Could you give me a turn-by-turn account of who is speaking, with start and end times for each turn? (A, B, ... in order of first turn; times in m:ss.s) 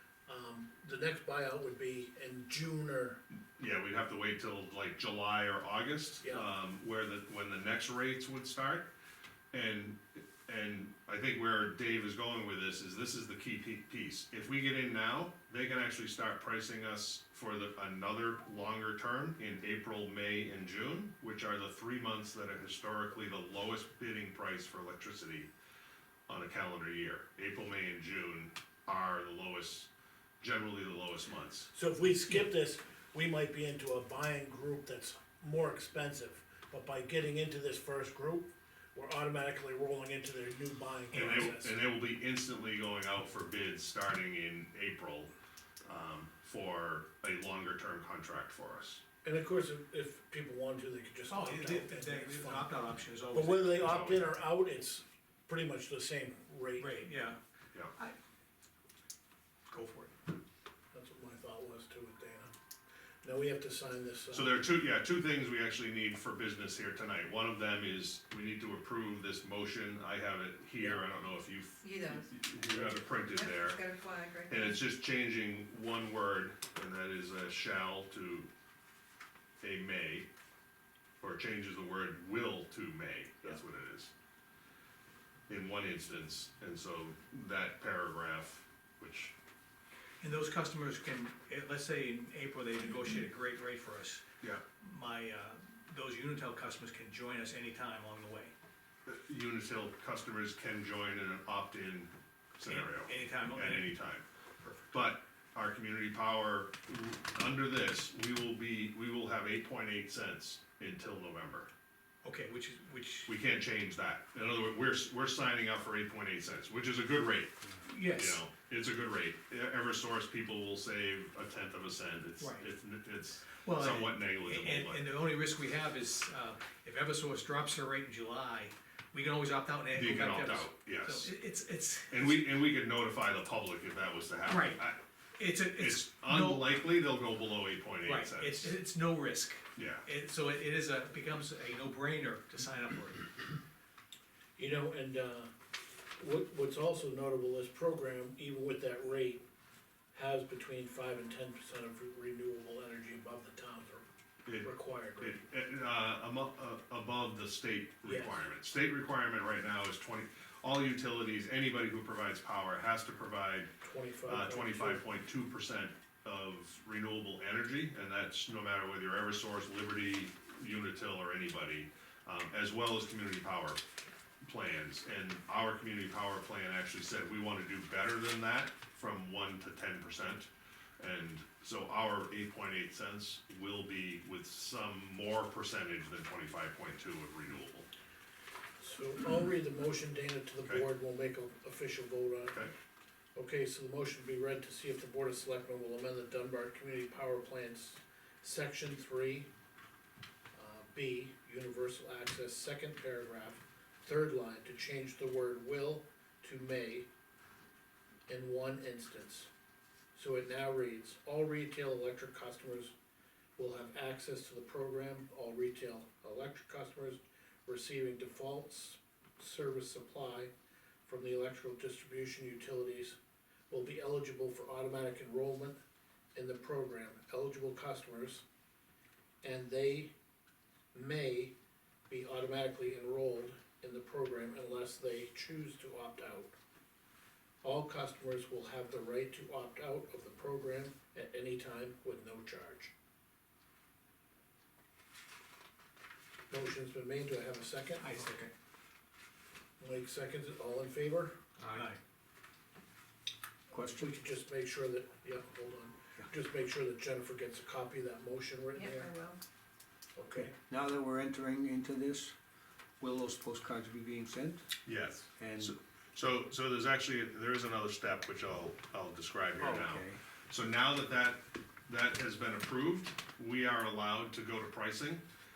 0:00.3-0:03.2 A
0:03.6-0:08.9 B
0:09.5-0:25.5 B
0:26.3-0:31.7 B
0:31.7-0:41.8 A
0:41.1-0:41.5 C
0:41.1-0:45.3 B
0:45.8-0:49.0 B
0:49.2-0:52.7 A
0:51.3-0:54.1 C
0:53.3-0:57.0 A
0:53.8-0:54.2 B
0:56.8-0:57.4 C
0:59.7-1:00.1 C
1:00.9-1:02.5 A
1:03.2-1:04.6 A
1:04.3-1:13.8 B
1:11.8-1:12.3 D
1:12.8-1:14.8 D
1:14.5-1:18.5 B
1:19.6-1:20.3 B
1:21.2-1:24.1 B
1:25.5-1:29.3 B
1:30.2-1:34.2 C
1:34.8-1:38.5 C
1:39.1-1:44.2 B
1:42.7-1:43.9 C
1:44.6-1:44.9 C
1:44.9-1:51.7 B
1:52.2-1:53.3 C
1:53.3-2:05.1 B
1:57.8-1:58.4 C
2:02.4-2:02.6 C
2:03.5-2:12.4 C
2:09.9-2:11.3 B
2:12.1-2:15.0 B
2:14.4-2:14.8 C
2:15.4-2:16.8 C
2:15.8-2:18.8 B
2:18.0-2:23.5 C
2:19.8-2:20.0 B
2:24.6-2:25.5 A
2:26.2-2:29.4 A
2:30.1-2:34.0 A
2:34.6-2:35.4 A
2:35.2-2:43.7 B
2:38.0-2:38.4 A
2:43.8-2:45.0 A
2:44.3-2:53.8 B
2:54.4-3:07.9 B
3:08.8-3:12.6 A
3:13.4-3:19.5 A
3:20.5-3:27.1 A
3:28.3-3:29.5 A
3:30.1-3:32.9 A
3:33.6-3:40.5 A
3:41.0-3:43.2 A
3:43.7-3:45.8 A
3:46.3-3:48.4 A
3:49.4-3:50.1 A
3:50.9-3:51.5 A
3:52.1-3:56.5 A
3:57.6-4:02.9 A
4:06.5-4:08.0 A
4:08.0-4:08.5 C
4:09.8-4:11.3 A
4:11.6-4:11.9 E
4:11.7-4:12.0 C
4:13.7-4:14.2 E
4:13.7-4:19.1 A
4:18.7-4:19.4 D
4:20.2-4:20.5 A
4:20.3-4:22.4 E
4:23.0-4:24.7 E
4:24.8-4:35.2 B
4:25.4-4:25.7 E
4:29.6-4:30.2 E